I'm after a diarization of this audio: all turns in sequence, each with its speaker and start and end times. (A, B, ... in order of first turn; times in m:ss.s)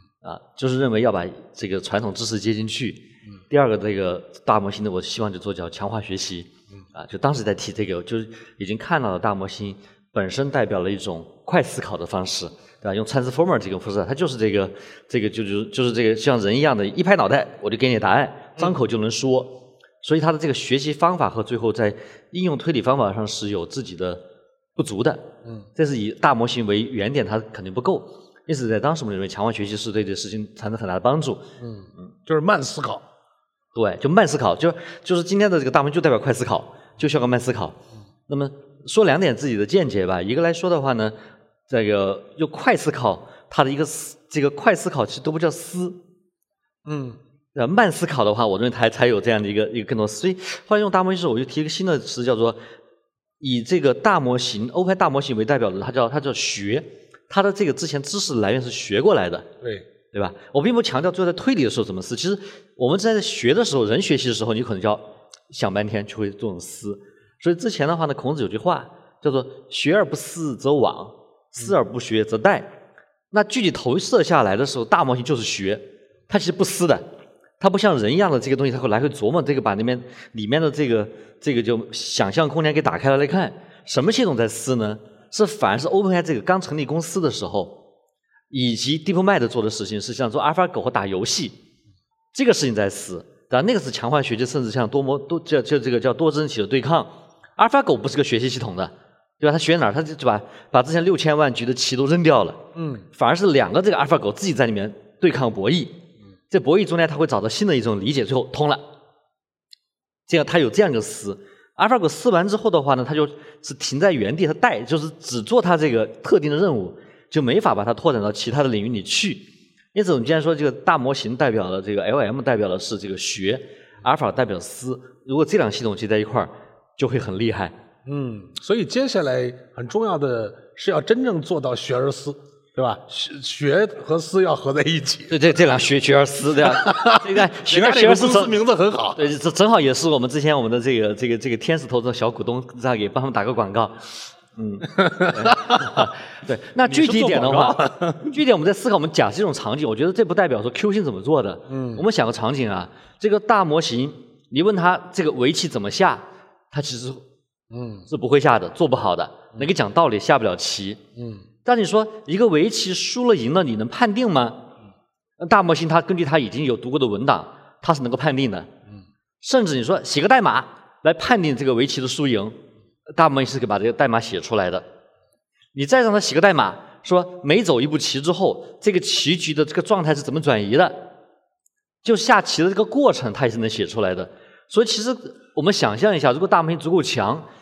0:00.2-0:24.2 A
0:24.8-0:31.4 A
0:31.6-0:33.0 B
0:33.8-0:37.8 A
0:38.3-0:41.2 A
0:41.7-0:46.0 A
0:46.8-0:47.2 B
0:47.6-0:52.6 A
0:53.4-0:59.5 A
1:00.1-1:12.7 A
1:13.3-1:17.1 A
1:17.6-1:27.8 A
1:28.5-1:31.6 A
1:32.3-1:46.0 A
1:42.8-1:43.1 B
1:46.5-1:48.8 A
1:50.3-2:07.8 A
2:08.0-2:15.4 B
2:15.3-2:18.6 A
2:16.6-2:19.3 B
2:19.2-2:37.2 A
2:25.0-2:26.1 B
2:26.9-2:28.3 B
2:31.7-2:32.0 B
2:37.7-2:38.1 B
2:38.1-2:41.0 A
2:41.2-2:41.4 B
2:41.6-2:44.7 A
2:45.4-2:48.7 A
2:49.4-2:52.6 A
2:53.1-2:54.9 A
2:55.8-3:01.1 A
3:02.0-3:07.5 A